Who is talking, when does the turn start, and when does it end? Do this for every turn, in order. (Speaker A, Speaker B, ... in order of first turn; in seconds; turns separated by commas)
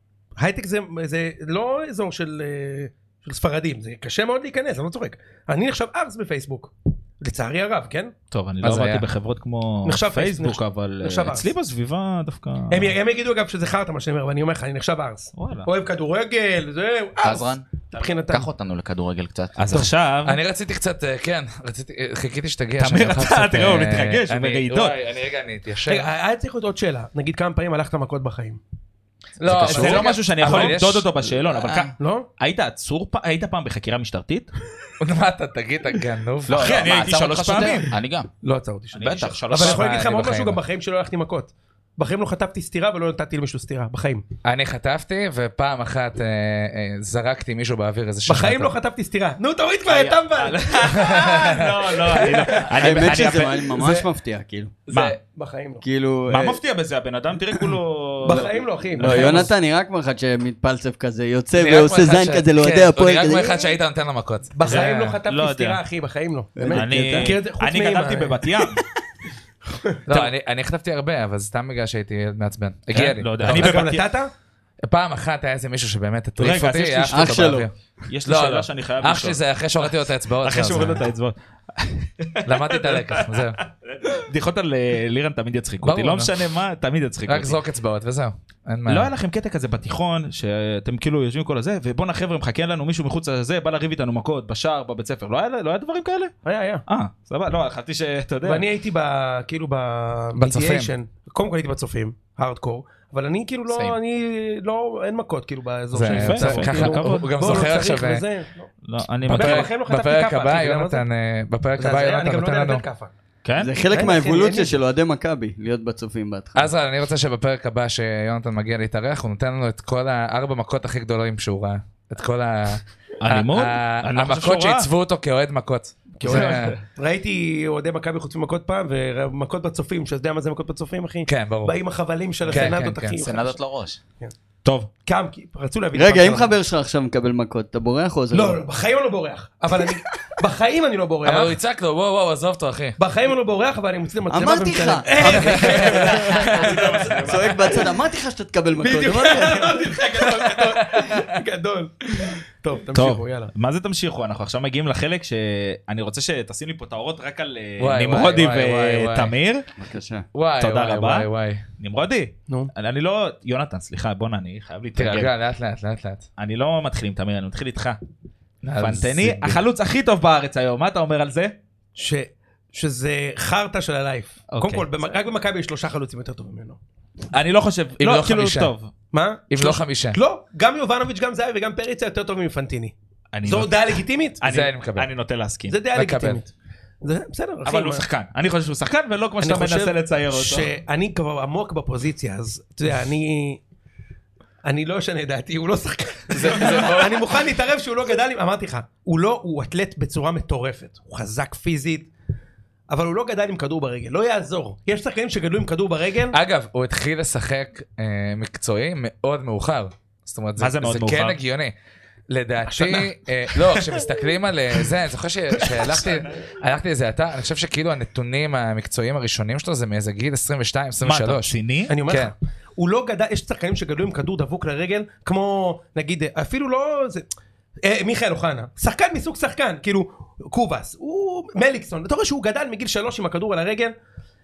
Speaker A: 0.4-8.1, Speaker B: 8.3-12.9, Speaker C: 8.6-9.1, Speaker A: 9.8-11.5, Speaker A: 12.7-18.5, Speaker B: 15.3-15.7, Speaker D: 17.2-17.6, Speaker D: 18.3-19.9, Speaker B: 19.6-20.4, Speaker C: 20.2-26.1, Speaker B: 22.8-24.9, Speaker A: 25.9-28.6, Speaker C: 29.4-31.1, Speaker D: 29.4-30.1, Speaker B: 29.6-34.5, Speaker A: 29.8-30.0, Speaker D: 31.4-31.9, Speaker A: 32.0-32.3, Speaker C: 35.0-36.8, Speaker D: 36.5-38.3, Speaker B: 36.5-37.9, Speaker A: 38.4-44.2, Speaker B: 38.9-39.9, Speaker D: 39.0-39.5, Speaker C: 39.5-40.6, Speaker C: 44.4-48.7, Speaker A: 48.3-51.2, Speaker B: 49.9-53.9, Speaker C: 51.0-52.6, Speaker A: 52.1-52.6, Speaker E: 52.7-54.7, Speaker A: 53.8-54.0, Speaker C: 54.9-55.2, Speaker B: 54.9-55.2, Speaker A: 55.2-55.8, Speaker E: 55.8-56.6, Speaker B: 56.3-59.5, Speaker A: 58.2-59.5, Speaker E: 59.0-63.8, Speaker C: 61.5-65.2, Speaker A: 64.5-68.4, Speaker B: 64.6-65.8, Speaker E: 66.6-67.3, Speaker B: 66.7-68.8, Speaker C: 70.1-73.9, Speaker B: 72.9-74.1, Speaker A: 73.4-74.3, Speaker C: 74.8-77.7, Speaker B: 76.4-87.6, Speaker E: 77.1-77.7, Speaker C: 78.2-81.0, Speaker C: 82.4-83.6, Speaker C: 85.8-86.3, Speaker C: 87.3-89.1, Speaker B: 88.9-96.3, Speaker A: 96.4-96.8, Speaker B: 96.9-98.6, Speaker A: 98.4-108.7, Speaker C: 100.3-100.9, Speaker D: 103.7-104.0, Speaker C: 105.9-108.2, Speaker B: 106.0-107.7, Speaker B: 108.8-109.7, Speaker A: 109.3-111.0, Speaker C: 109.3-112.8, Speaker A: 111.8-113.1, Speaker B: 113.4-113.7, Speaker E: 113.6-116.7, Speaker A: 113.9-114.7, Speaker C: 116.5-126.8, Speaker B: 123.2-124.9, Speaker A: 126.2-133.6, Speaker B: 126.2-126.6, Speaker C: 131.2-131.8, Speaker C: 132.5-133.2, Speaker D: 132.6-134.0, Speaker B: 134.6-134.9, Speaker A: 135.0-136.5, Speaker E: 135.9-138.6, Speaker A: 138.3-141.6, Speaker C: 141.2-143.0, Speaker A: 143.0-147.2, Speaker E: 144.3-149.8, Speaker C: 145.2-147.2, Speaker B: 145.3-147.8, Speaker A: 148.8-153.5, Speaker C: 150.2-151.2, Speaker B: 152.9-159.6, Speaker C: 157.8-159.3, Speaker E: 159.8-160.2, Speaker C: 160.3-161.6, Speaker B: 160.6-161.3, Speaker B: 161.8-165.3, Speaker C: 164.9-166.2, Speaker B: 166.4-168.0, Speaker C: 168.6-169.6, Speaker B: 168.8-171.5, Speaker A: 171.9-176.8, Speaker B: 174.5-174.9, Speaker B: 177.3-178.9, Speaker C: 178.0-178.7, Speaker A: 179.1-184.4, Speaker C: 179.5-180.2, Speaker B: 183.3-185.8, Speaker C: 184.4-185.1, Speaker A: 185.7-188.0, Speaker C: 185.9-186.4, Speaker B: 187.6-190.7, Speaker A: 189.4-193.6, Speaker A: 194.6-202.1, Speaker C: 196.3-197.3, Speaker A: 202.9-206.3, Speaker C: 206.3-211.7, Speaker B: 210.6-211.4, Speaker C: 212.3-222.3, Speaker A: 212.7-213.0, Speaker B: 221.0-221.9, Speaker A: 221.9-227.2, Speaker A: 227.8-233.9